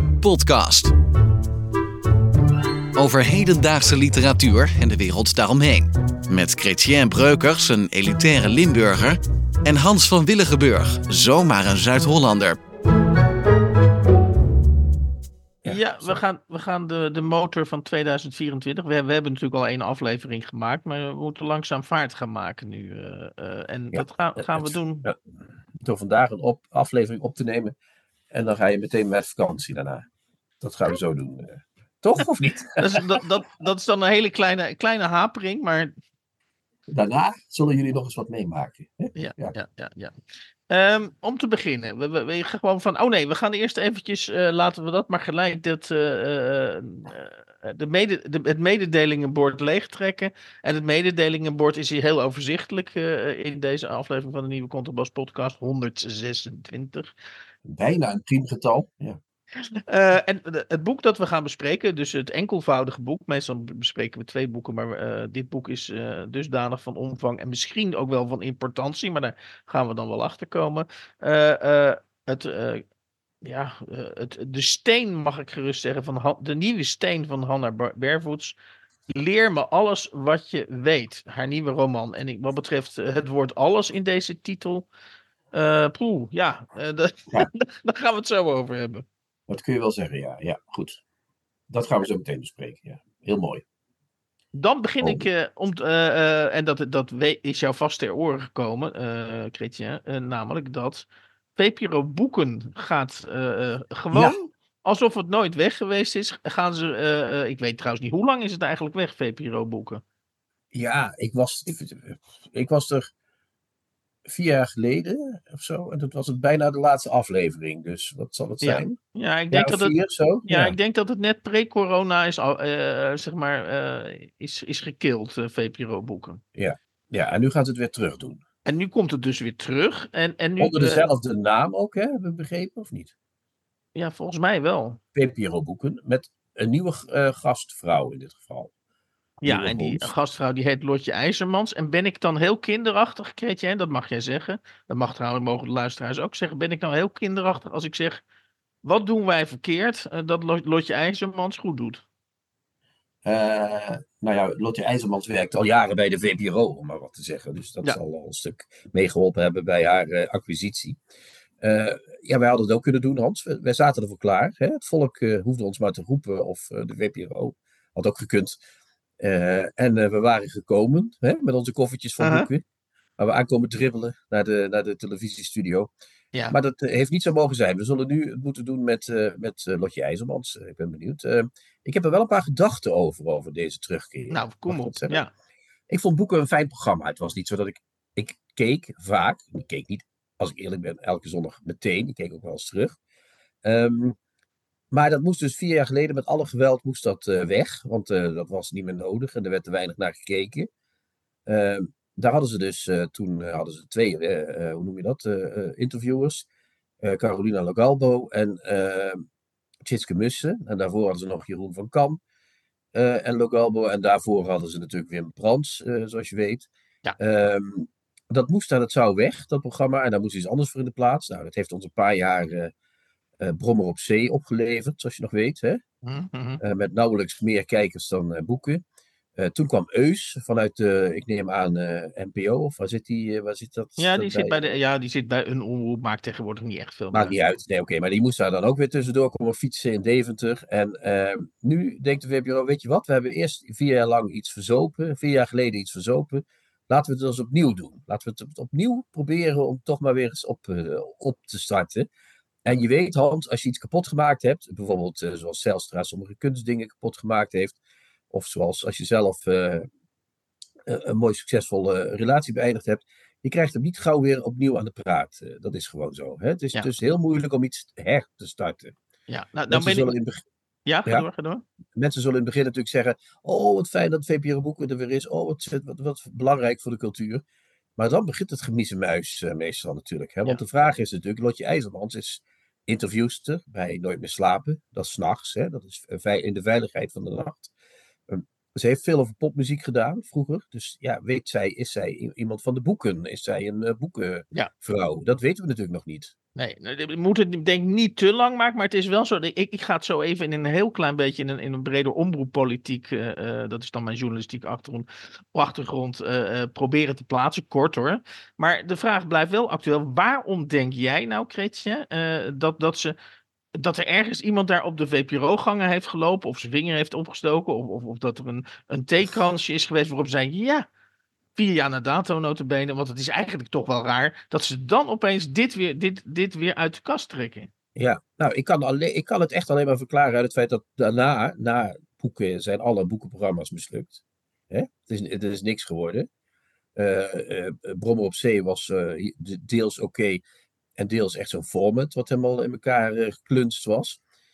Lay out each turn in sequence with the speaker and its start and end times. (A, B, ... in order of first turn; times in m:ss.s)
0:00.2-0:00.9 A
0:03.0-0:12.6 A
0:15.6-0:16.2 B
0:15.7-0:25.1 C
0:23.9-0:25.2 B
0:25.8-0:27.8 B
0:28.3-0:30.0 B
0:30.6-0:33.1 B
0:32.8-0:35.9 C
0:36.9-0:39.6 B
0:39.2-0:40.2 C
0:40.7-0:57.1 C
0:57.6-0:59.2 B
0:59.9-1:12.8 C
1:13.4-1:18.6 C
1:19.1-1:24.9 C
1:25.5-1:29.1 C
1:29.5-1:31.0 B
1:31.7-1:33.6 B
1:34.5-1:50.0 C
1:44.1-1:44.4 B
1:50.7-1:53.1 B
1:54.3-1:59.0 B
1:58.6-2:00.0 C
1:59.5-2:00.8 B
2:00.5-2:06.4 C
2:06.6-2:08.4 B
2:08.6-2:11.1 C
2:10.6-2:13.1 B
2:14.0-2:15.0 C
2:15.2-2:18.7 B
2:19.4-2:28.2 C
2:19.4-2:20.1 B
2:28.8-2:32.0 C
2:33.2-2:41.0 B
2:41.6-2:48.6 B
2:49.2-2:52.6 B
2:52.2-2:52.5 C
2:53.2-2:55.9 B
2:56.5-3:05.2 B
3:04.3-3:05.3 C
3:05.9-3:13.0 B
3:13.6-3:14.2 B
3:14.9-3:20.7 B
3:21.5-3:26.5 B
3:27.0-3:29.2 B
3:29.8-3:32.2 B
3:32.9-3:42.7 B
3:43.4-3:45.8 B
3:46.0-3:46.6 C
3:46.6-3:48.8 B
3:49.4-3:54.7 B
3:54.0-3:57.4 C
3:57.1-4:12.1 B
4:12.6-4:17.8 B
4:18.3-4:19.9 B
4:20.9-4:29.0 B
4:29.3-4:30.1 C
4:29.7-4:30.4 B
4:30.9-4:31.6 C
4:32.0-4:37.4 B
4:38.0-4:47.7 B
4:48.3-4:56.3 B
4:56.6-5:13.2 C
5:13.8-5:20.9 C
5:21.6-5:27.7 C
5:28.0-5:36.3 B
5:37.0-5:40.4 B
5:41.0-5:44.2 B